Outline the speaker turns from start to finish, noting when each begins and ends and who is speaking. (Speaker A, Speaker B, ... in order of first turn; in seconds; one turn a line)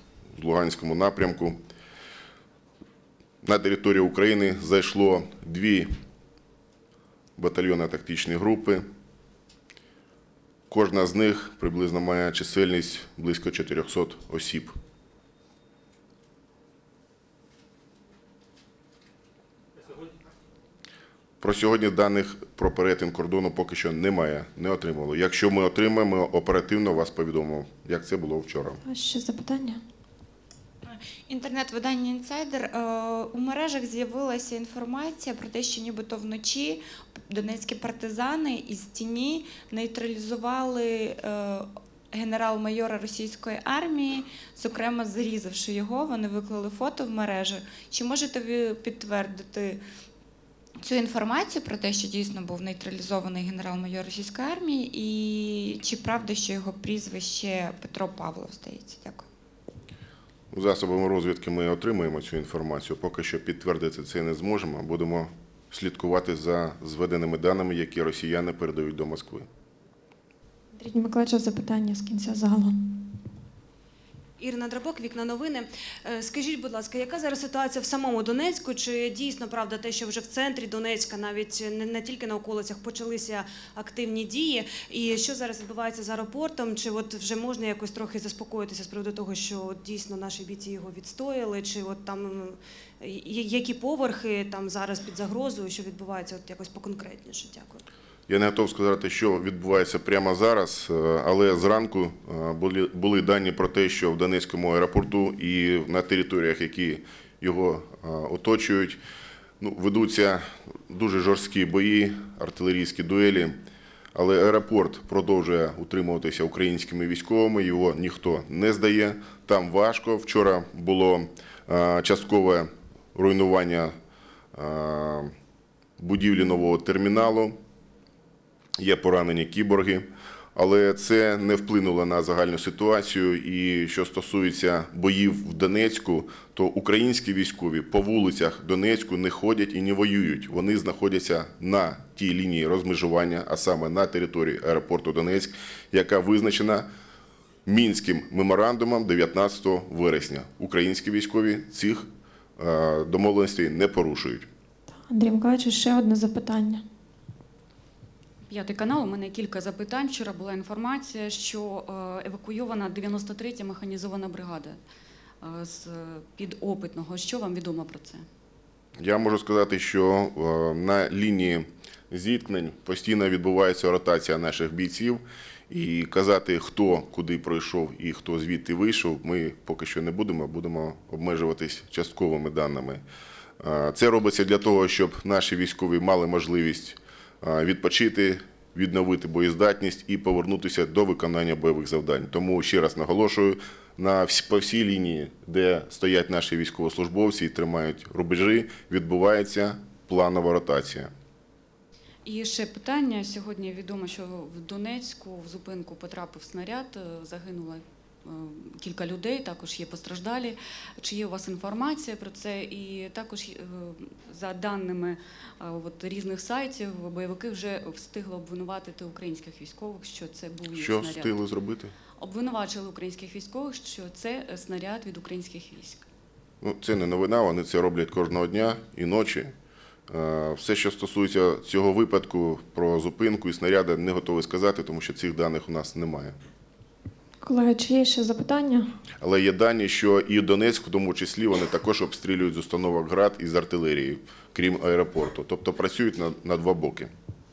Speaker A: 0.3-1.6
Speaker A: 3.4-5.9
Speaker A: 7.4-8.8
Speaker A: 10.7-14.7
Speaker A: 21.4-28.8
Speaker B: 28.8-29.8
Speaker C: 30.9-49.8
Speaker C: 50.8-59.2
Speaker A: 60.5-69.5
Speaker B: 70.7-72.7
Speaker D: 74.4-97.8
Speaker A: 98.3-109.0
Speaker A: 109.6-113.6
Speaker A: 114.1-123.9
Speaker A: 124.5-125.3
Speaker A: 126.0-127.6
Speaker A: 128.8-146.9
Speaker A: 147.7-154.5
Speaker B: 154.9-156.8
Speaker E: 158.5-164.8
Speaker E: 165.4-168.2
Speaker A: 169.0-183.0
Speaker A: 183.6-201.1
Speaker E: 202.2-221.4
Speaker A: 220.7-221.9
Speaker E: 222.2-226.1
Speaker A: 226.6-229.5
Speaker A: 230.1-236.3
Speaker B: 237.4-238.9
Speaker A: 239.2-247.1